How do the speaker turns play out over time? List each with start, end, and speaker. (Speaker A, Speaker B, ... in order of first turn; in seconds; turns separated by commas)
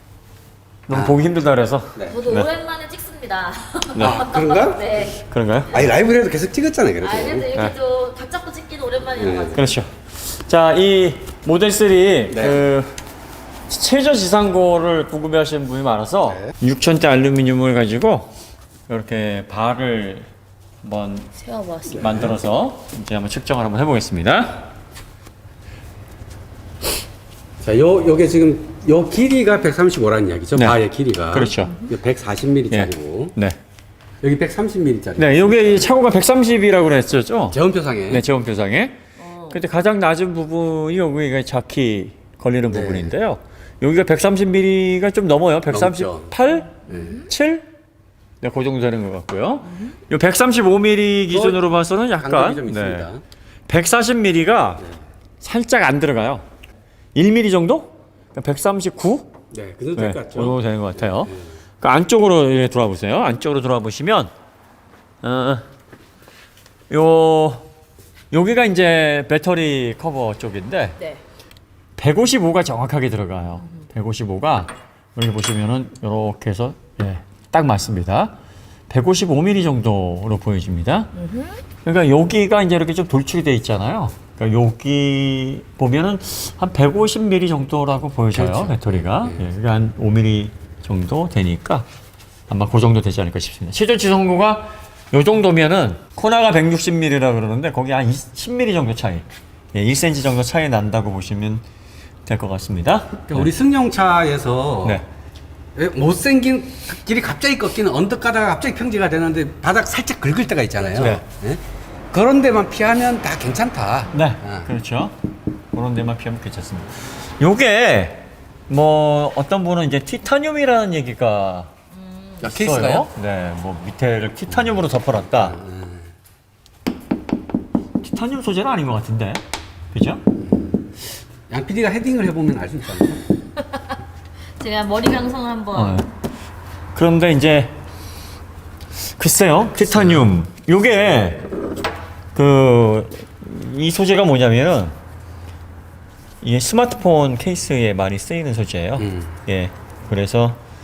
Speaker A: 0.9-2.5, Speaker B: 0.9-1.2, Speaker B: 1.9-2.2, Speaker C: 2.1-5.2, Speaker A: 3.9-4.3, Speaker B: 4.0-4.9, Speaker A: 5.2-5.9, Speaker B: 5.7-7.5, Speaker C: 7.0-9.6, Speaker B: 9.2-9.6, Speaker A: 9.5-12.9, Speaker B: 12.3-12.6, Speaker A: 13.7-18.3, Speaker B: 16.3-16.5, Speaker A: 18.9-20.3, Speaker A: 20.8-21.3, Speaker C: 21.4-22.2, Speaker B: 21.9-22.3, Speaker A: 21.9-24.7, Speaker B: 27.6-33.3, Speaker A: 31.3-31.8, Speaker C: 31.6-31.9, Speaker A: 32.7-33.6, Speaker B: 34.2-35.7, Speaker A: 35.2-47.6, Speaker B: 37.5-38.2, Speaker C: 39.2-39.6, Speaker B: 42.7-43.1, Speaker B: 45.7-46.3, Speaker B: 46.9-47.2, Speaker A: 48.4-53.1, Speaker B: 51.3-51.7, Speaker B: 52.2-53.2, Speaker A: 53.7-54.9, Speaker A: 55.4-56.4, Speaker A: 57.1-59.3, Speaker B: 59.5-61.4, Speaker A: 60.0-64.3, Speaker A: 65.2-65.7, Speaker A: 66.9-67.7, Speaker A: 68.3-71.0, Speaker A: 72.0-78.3, Speaker A: 78.9-81.1, Speaker C: 81.2-81.6, Speaker A: 81.8-91.8, Speaker B: 88.3-89.4, Speaker A: 92.5-101.6, Speaker A: 102.2-103.5, Speaker B: 103.3-105.0, Speaker B: 105.7-114.7, Speaker A: 111.0-111.2, Speaker A: 114.1-115.1, Speaker A: 115.7-121.7, Speaker C: 122.0-122.3, Speaker B: 122.4-123.1, Speaker A: 122.4-125.6, Speaker B: 125.4-126.1, Speaker A: 128.0-130.2, Speaker B: 131.5-133.2, Speaker C: 134.6-136.0, Speaker A: 135.7-136.1, Speaker A: 136.9-137.8, Speaker A: 139.2-141.5, Speaker A: 142.3-144.9, Speaker A: 146.4-150.6, Speaker B: 149.0-149.3